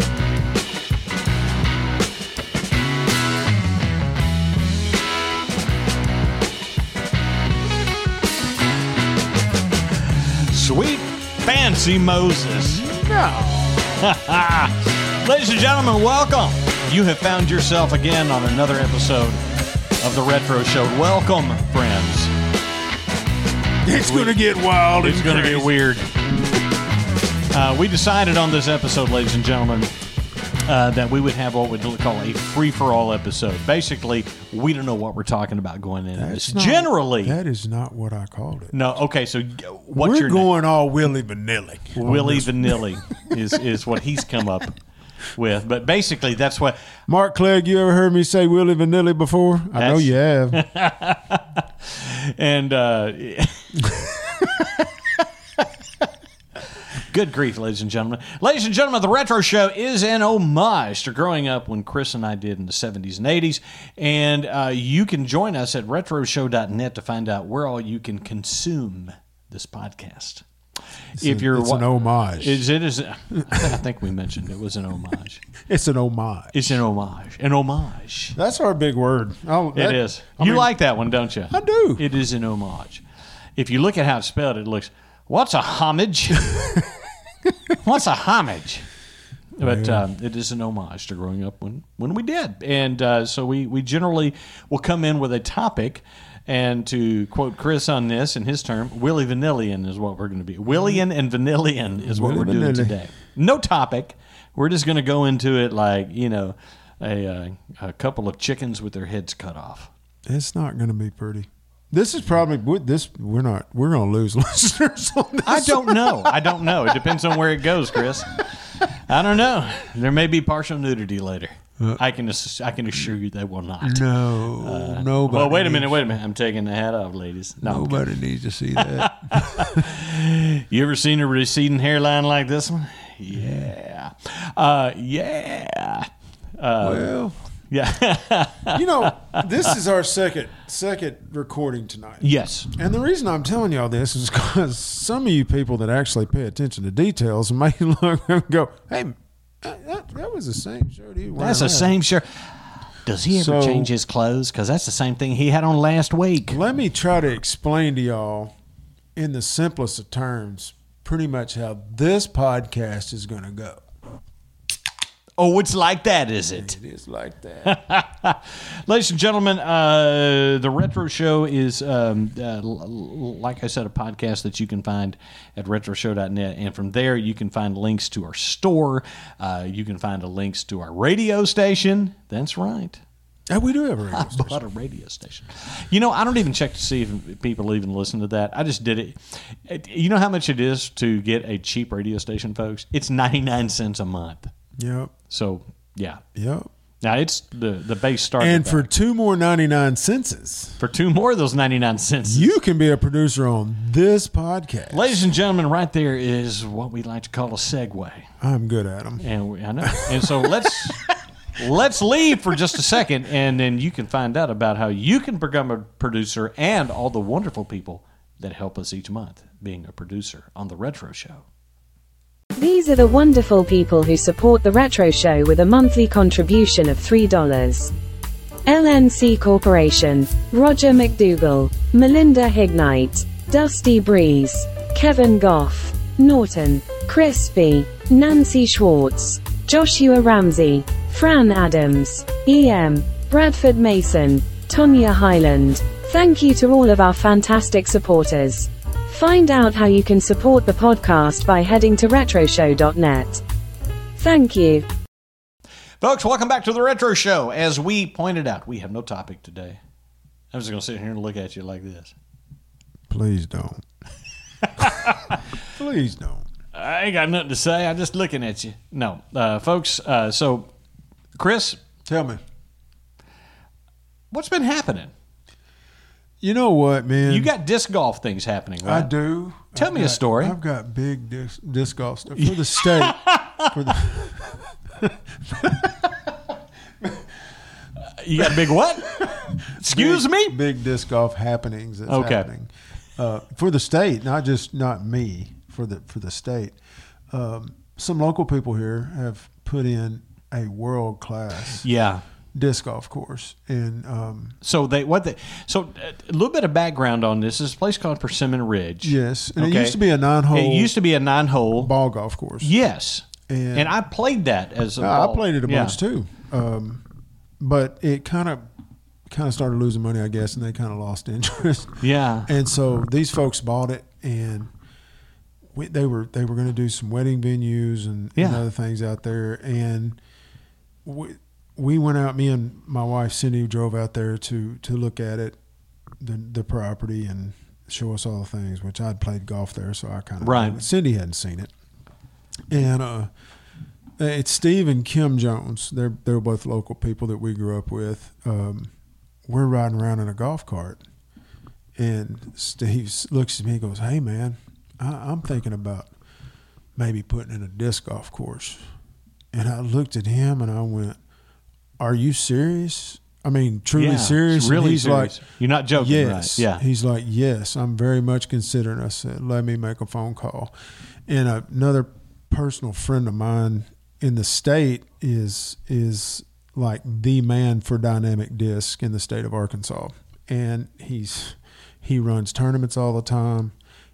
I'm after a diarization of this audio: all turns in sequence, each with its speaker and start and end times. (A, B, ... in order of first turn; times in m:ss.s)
0:10.0-0:12.9 A
0:12.7-0:13.8 B
0:13.8-0:19.4 A
0:20.0-0:22.3 A
0:23.8-0:25.7 B
0:23.9-0:24.4 A
0:25.0-0:26.1 A
0:27.5-0:29.9 A
0:30.6-0:37.4 A
0:36.2-0:38.8 B
0:38.7-0:40.5 A
0:40.0-0:43.5 B
0:42.0-0:44.8 A
0:45.4-0:46.8 A
0:47.1-0:50.6 B
0:49.7-0:54.4 A
0:56.9-1:10.4 A
1:11.2-1:12.6 B
1:11.2-1:15.4 A
1:13.4-1:13.8 B
1:15.6-1:16.8 B
1:16.5-1:18.4 A
1:18.3-1:20.7 B
1:19.7-1:23.0 A
1:21.5-1:22.0 B
1:23.6-1:26.9 A
1:27.7-1:28.8 A
1:29.6-1:49.9 A
1:29.6-1:30.0 B
1:40.7-1:41.0 B
1:42.0-1:43.0 B
1:50.2-1:58.2 B
1:55.4-2:08.0 A
2:03.8-2:06.0 B
2:07.6-2:09.9 B
2:08.8-2:17.2 A
2:16.8-2:17.4 B
2:17.7-2:19.5 A
2:18.7-2:31.9 B
2:22.2-2:22.7 A
2:31.4-2:32.4 A
2:33.0-2:36.6 A
2:33.3-2:33.9 B
2:36.4-2:38.5 B
2:39.2-2:43.8 B
2:45.4-2:46.8 A
2:46.5-2:47.8 B
2:47.6-3:03.0 A
3:03.5-3:04.6 B
3:04.1-3:14.5 A
3:14.8-3:15.1 B
3:15.3-3:16.2 A
3:16.3-3:16.7 B
3:17.0-3:18.9 A
3:18.4-3:20.8 B
3:20.8-3:22.5 A
3:22.2-3:25.2 B
3:24.9-3:28.3 A
3:28.4-3:29.2 B
3:29.2-3:41.4 A
3:29.8-3:31.0 B
3:42.6-3:47.9 C
3:48.6-4:13.4 C
4:14.2-4:14.8 C
4:16.0-4:19.8 A
4:20.5-4:22.1 A
4:23.1-4:23.8 B
4:24.6-4:25.4 A
4:25.7-4:26.4 B
4:26.7-4:30.7 A
4:31.4-4:31.8 A
4:32.0-4:32.4 B
4:34.3-4:35.1 A
4:36.4-4:37.5 B
4:37.2-4:39.1 A
4:38.8-4:46.2 B
4:39.7-4:40.6 A
4:42.4-4:43.7 A
4:48.1-4:50.6 A
4:48.4-4:56.8 B
4:52.1-4:52.5 A
4:57.3-5:01.8 B
5:01.8-5:02.2 A
5:02.5-5:04.6 B
5:04.6-5:10.0 A
5:09.0-5:10.9 B
5:10.5-5:11.9 A
5:11.8-5:12.7 B
5:12.6-5:16.0 A
5:13.5-5:13.9 B
5:15.0-5:17.0 B
5:17.6-5:18.6 B
5:19.3-5:24.7 B
5:22.0-5:22.5 A
5:25.7-5:30.2 B
5:28.4-5:28.6 A
5:31.0-5:35.6 B
5:36.2-5:41.7 B
5:40.4-5:40.8 A
5:42.7-5:43.3 B
5:44.2-5:48.9 B
5:49.5-5:51.0 B
5:52.0-5:56.1 B
5:57.0-5:58.8 B
5:59.5-6:01.2 B
6:02.0-6:05.3 B
6:03.9-6:06.8 A
6:06.0-6:10.7 B
6:11.3-6:23.7 B